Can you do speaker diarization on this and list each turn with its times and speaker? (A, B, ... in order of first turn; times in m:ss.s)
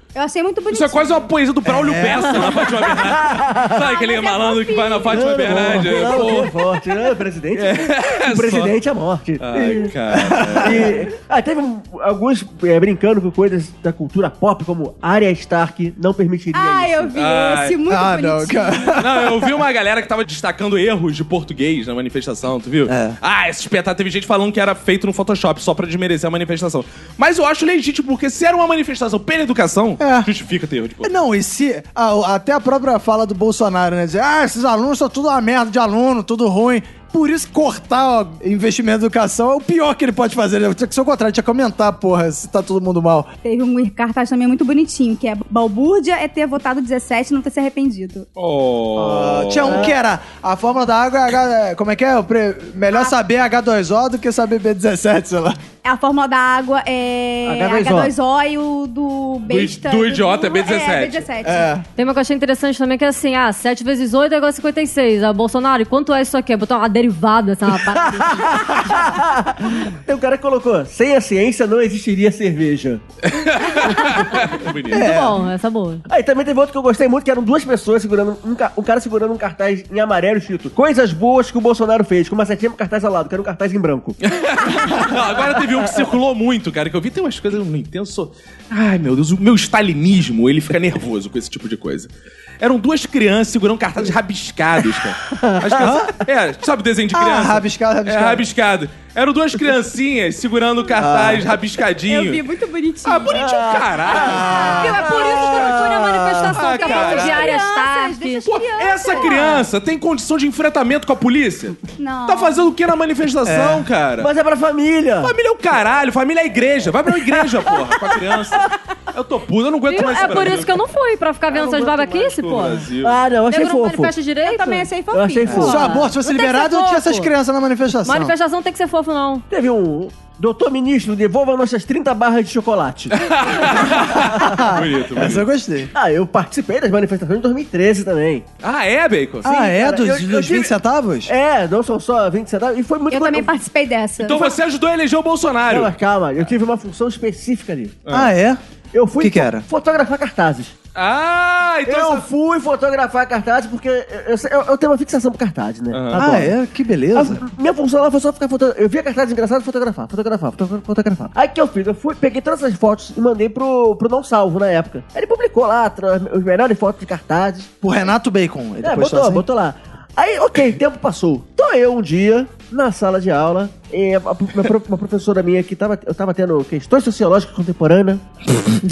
0:00.1-0:01.3 A
0:00.7-0:06.6 B
0:01.6-0:02.6 C
0:03.0-0:03.8 D
0:03.8-0:05.4 A
0:05.1-0:09.9 D
0:07.5-0:08.7 B
0:09.4-0:11.0 B
0:10.1-0:10.9 C
0:10.6-0:17.1 D
0:16.5-0:19.0 A
0:17.1-0:17.8 B
0:17.9-0:19.5 C
0:19.0-0:31.1 B
0:22.9-0:23.2 C
0:30.0-0:30.3 C
0:31.0-0:43.3 C
0:43.4-0:48.3 A
0:48.4-0:49.9 B
0:49.0-0:49.9 D
0:49.0-0:55.6 C
0:55.8-1:01.7 A
0:57.4-0:58.1 D
0:59.5-1:01.2 B
1:01.4-1:01.8 C
1:02.0-1:09.1 E
1:07.8-1:13.0 D
1:13.2-1:15.1 B
1:14.0-1:16.0 E
1:14.9-1:15.4 C
1:16.1-1:26.0 D
1:24.2-1:42.4 B
1:35.3-1:35.9 D
1:35.7-1:36.2 C
1:37.1-1:38.4 C
1:41.0-1:41.5 C
1:42.0-1:43.4 A
1:43.0-1:44.8 B
1:43.3-1:46.6 D
1:44.2-1:45.1 C
1:44.4-1:48.5 E
1:46.5-1:47.6 B
1:46.6-1:49.6 A
1:48.5-1:54.3 B
1:49.2-1:49.6 E
1:52.0-1:52.6 A
1:53.4-1:53.9 C
1:54.2-1:55.3 D
1:55.2-2:00.8 B
1:59.9-2:02.9 E
2:01.5-2:03.2 B
2:01.5-2:01.8 D
2:03.0-2:04.1 D
2:03.5-2:04.9 E
2:04.4-2:06.0 A
2:05.1-2:05.9 D
2:05.4-2:07.3 E
2:05.5-2:08.3 C
2:08.0-2:09.4 E
2:09.5-2:14.6 D
2:13.1-2:15.4 B
2:14.2-2:15.9 C
2:15.9-2:18.4 D
2:18.6-2:19.5 B
2:19.4-2:21.3 C
2:19.4-2:20.7 D
2:21.3-2:23.5 D
2:23.1-2:24.5 A
2:24.2-2:26.5 B
2:25.7-2:28.0 D
2:28.0-2:28.3 B
2:28.1-2:28.6 C
2:28.9-2:30.7 D
2:29.2-2:29.6 C
2:30.9-2:32.3 B
2:31.9-2:36.5 D
2:35.9-2:36.3 B
2:36.2-2:37.4 C
2:37.1-2:47.7 D
2:47.8-2:49.4 C
2:48.8-2:58.2 D